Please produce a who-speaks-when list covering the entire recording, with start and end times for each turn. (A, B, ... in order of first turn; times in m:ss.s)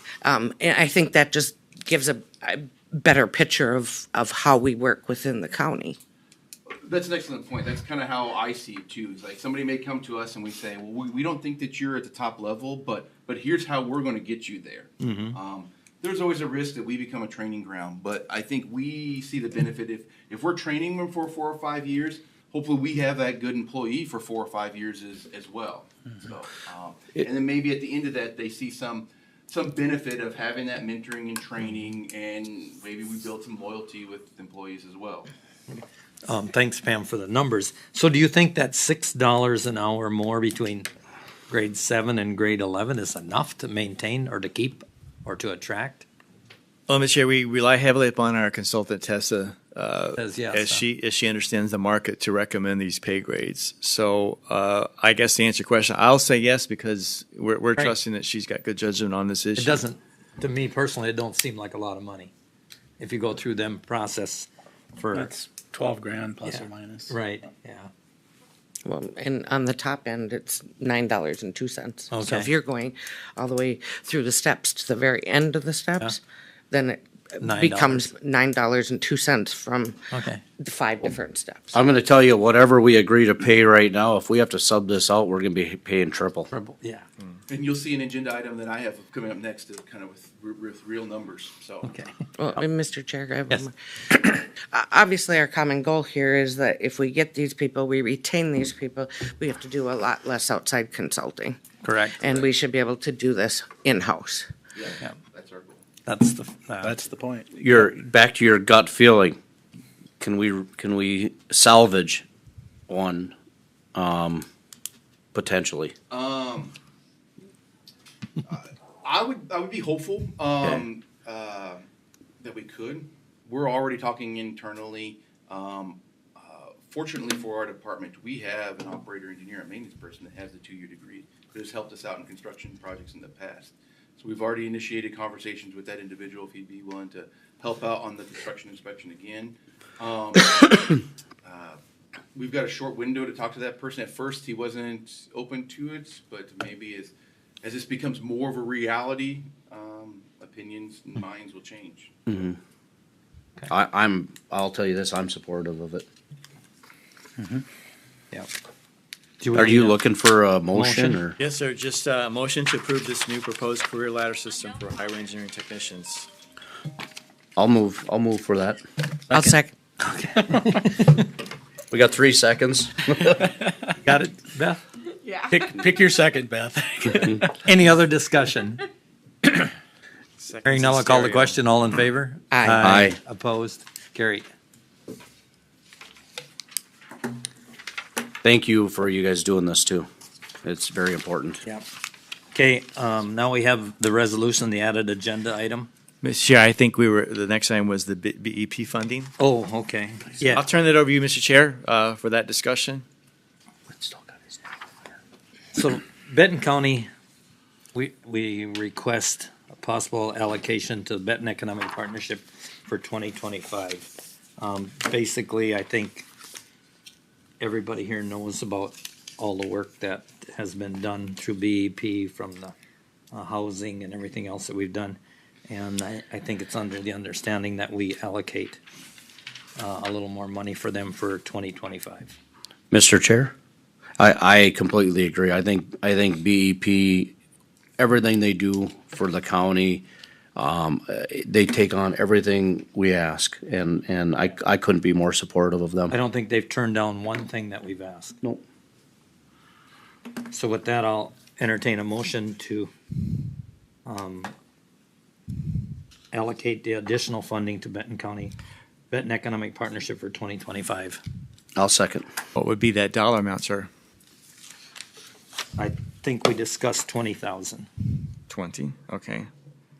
0:00.2-0:06.0 A
0:06.8-0:35.3 B
0:15.0-0:15.4 C
0:35.7-0:40.9 C
0:41.5-0:46.0 C
0:46.9-0:59.8 D
0:50.1-0:50.8 C
0:59.6-1:02.3 C
1:03.0-1:05.3 C
1:05.1-1:07.1 E
1:06.4-1:07.9 C
1:08.8-1:16.2 A
1:12.1-1:12.5 C
1:16.7-1:20.0 A
1:17.4-1:18.1 C
1:20.1-1:20.4 C
1:20.6-1:21.8 A
1:21.7-1:26.5 F
1:26.5-1:27.0 C
1:27.5-1:31.9 B
1:31.8-1:32.6 C
1:32.4-1:41.6 A
1:41.8-1:42.4 C
1:42.2-1:44.5 A
1:44.7-1:45.8 B
1:46.0-1:47.0 C
1:46.8-1:47.5 E
1:47.5-1:49.4 F
1:50.2-1:52.2 F
1:52.9-1:53.3 F
1:53.9-1:54.4 F
1:55.3-1:55.9 F
1:56.1-1:56.7 B
1:58.4-2:01.8 B
2:02.4-2:21.8 B
2:22.3-2:32.1 B
2:32.3-2:32.6 F
2:33.7-2:36.0 F
2:37.4-2:37.6 E
2:39.4-2:40.0 C
2:39.5-2:41.4 F
2:40.7-2:41.2 C
2:41.4-2:46.3 D
2:47.6-2:48.8 F
2:49.3-2:49.7 A
2:50.0-2:51.2 C
2:51.9-2:53.5 F
2:54.0-2:54.8 C
2:55.5-2:57.4 E
2:57.5-2:58.8 C
3:00.4-3:01.6 D
3:00.6-3:04.5 C
3:02.5-3:02.9 A
3:02.8-3:03.2 F
3:08.4-3:10.1 F
3:10.6-3:11.6 F
3:12.5-3:15.9 C
3:16.2-3:19.3 D
3:19.4-3:20.6 C
3:20.5-3:23.0 D
3:24.0-3:24.5 E
3:25.7-3:27.1 C
3:27.9-3:36.3 C
3:37.6-3:42.7 C
3:43.3-3:48.8 C
3:49.8-3:52.3 C
3:52.9-3:53.5 F
3:54.2-3:57.3 F
3:58.0-4:00.0 F
4:00.6-4:06.1 F
4:06.1-4:08.4 C
4:10.4-4:12.9 C
4:14.0-4:14.5 C
4:16.3-4:18.6 C
4:19.1-4:21.2 C
4:21.8-4:22.2 F
4:22.5-4:23.9 D
4:25.8-4:27.9 C
4:28.5-4:29.5 D